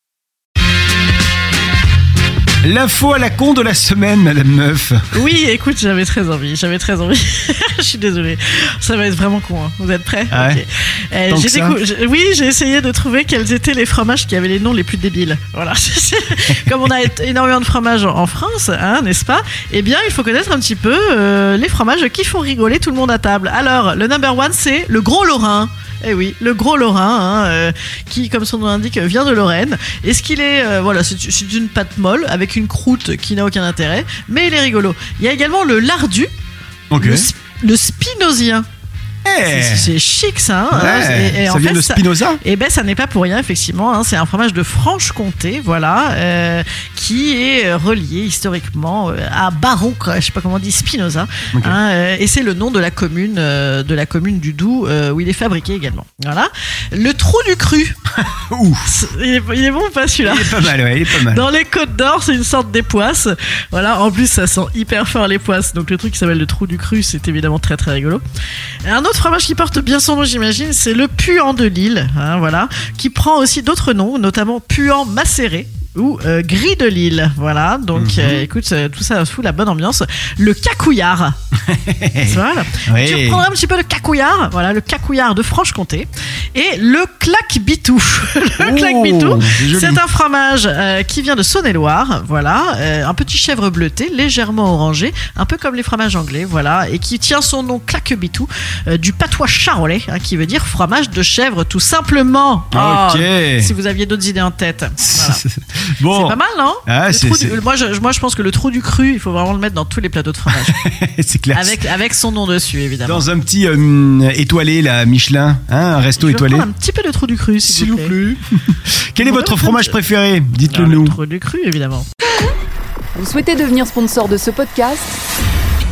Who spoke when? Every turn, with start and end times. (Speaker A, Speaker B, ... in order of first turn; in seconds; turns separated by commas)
Speaker A: 2.6-5.0, Speaker B: 5.1-36.3, Speaker A: 10.3-10.6, Speaker A: 11.3-11.8, Speaker A: 36.9-37.3, Speaker B: 37.0-38.7, Speaker A: 39.2-39.9, Speaker B: 39.5-58.0, Speaker A: 40.7-42.4, Speaker A: 51.5-51.8, Speaker A: 58.3-58.9, Speaker B: 58.9-68.2, Speaker A: 60.2-61.5, Speaker B: 68.8-81.3, Speaker A: 78.0-78.5, Speaker A: 81.7-83.4, Speaker B: 82.2-105.4, Speaker A: 88.6-90.0, Speaker A: 102.7-103.7, Speaker A: 105.0-107.6, Speaker B: 106.1-110.8, Speaker A: 110.5-111.8, Speaker B: 111.5-113.3, Speaker A: 113.0-116.7, Speaker B: 116.2-118.1, Speaker A: 117.6-121.2, Speaker B: 119.2-120.0, Speaker B: 120.7-122.1, Speaker C: 123.2-125.2